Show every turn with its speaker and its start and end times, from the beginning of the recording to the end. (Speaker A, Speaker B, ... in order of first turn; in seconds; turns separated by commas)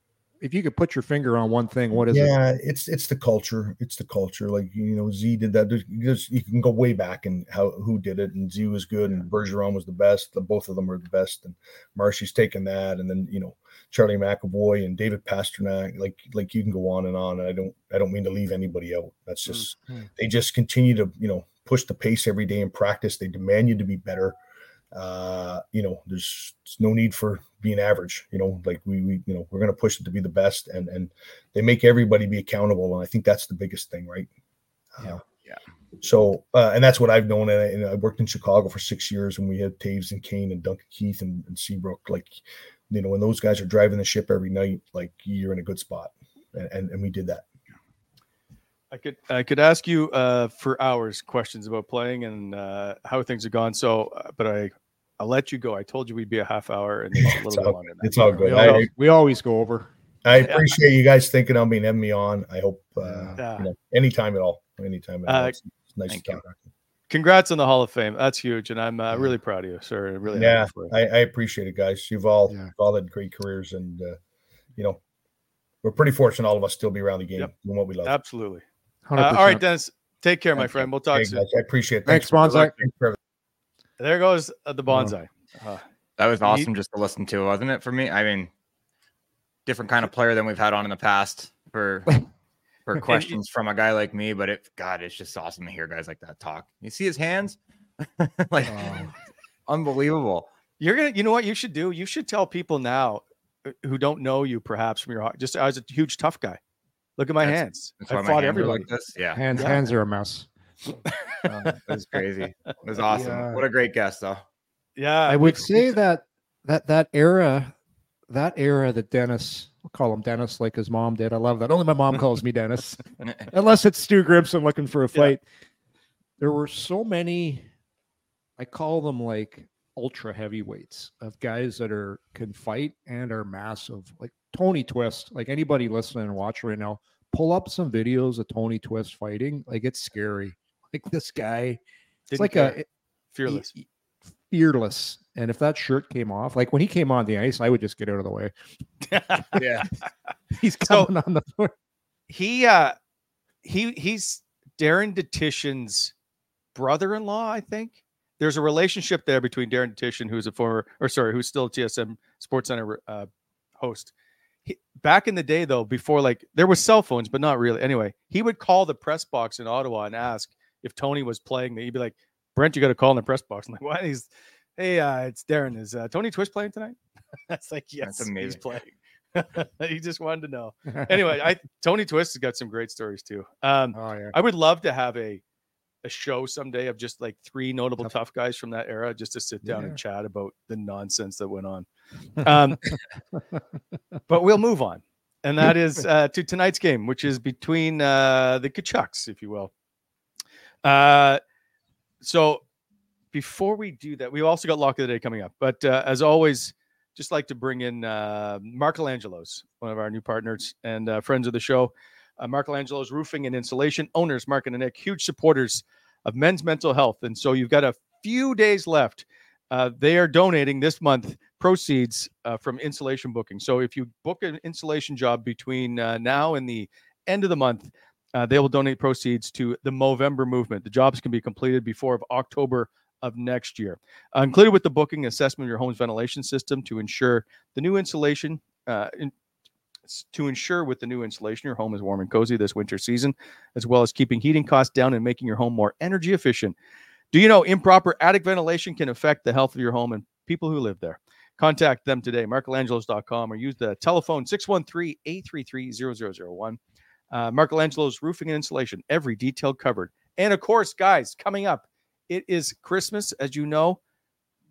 Speaker A: 0.4-2.3, Speaker B: 1.9-24.4, Speaker A: 19.5-20.1, Speaker B: 24.9-34.3, Speaker B: 35.0-35.2, Speaker B: 36.0-47.4, Speaker C: 48.9-58.8, Speaker B: 57.2-58.9, Speaker A: 58.4-59.9, Speaker B: 60.2-66.7, Speaker A: 63.0-63.4, Speaker C: 63.4-63.6, Speaker C: 65.3-65.5, Speaker D: 66.1-66.4, Speaker C: 67.1-70.9, Speaker B: 70.3-74.2, Speaker A: 72.5-72.7, Speaker B: 75.8-78.2, Speaker C: 78.0-78.6, Speaker A: 79.0-79.6, Speaker C: 79.2-81.4, Speaker B: 80.5-83.2, Speaker A: 82.0-82.8, Speaker C: 84.0-85.8, Speaker A: 84.9-85.1, Speaker D: 86.2-88.5, Speaker C: 86.4-86.7, Speaker D: 89.7-92.2, Speaker D: 92.9-99.1, Speaker C: 93.1-93.4, Speaker A: 98.6-99.1, Speaker D: 99.7-100.5, Speaker C: 100.8-106.6, Speaker C: 107.2-108.8, Speaker D: 107.4-109.8, Speaker A: 108.5-110.5, Speaker C: 109.5-109.8, Speaker C: 111.0-111.5, Speaker A: 111.5-111.8, Speaker D: 111.9-114.4, Speaker A: 113.1-113.6, Speaker C: 115.0-116.0, Speaker A: 115.3-117.7, Speaker A: 118.3-125.4, Speaker A: 126.4-127.7, Speaker A: 128.6-141.8, Speaker C: 142.3-142.8, Speaker A: 142.4-142.9, Speaker C: 143.3-143.7, Speaker A: 143.4-143.8, Speaker A: 144.5-148.5, Speaker C: 149.0-149.7, Speaker D: 149.6-149.9, Speaker A: 150.5-151.7, Speaker C: 152.3-152.9, Speaker C: 153.6-156.1, Speaker C: 156.7-163.3, Speaker C: 163.8-164.1, Speaker C: 164.7-177.0, Speaker C: 177.5-185.4, Speaker D: 178.0-178.6, Speaker A: 183.9-184.4, Speaker C: 186.0-191.9, Speaker A: 189.6-190.0, Speaker C: 192.4-192.8, Speaker C: 194.3-199.7, Speaker C: 200.8-201.4, Speaker C: 202.2-202.6, Speaker C: 203.3-239.3, Speaker C: 240.1-246.7, Speaker C: 247.3-256.8, Speaker C: 257.3-264.0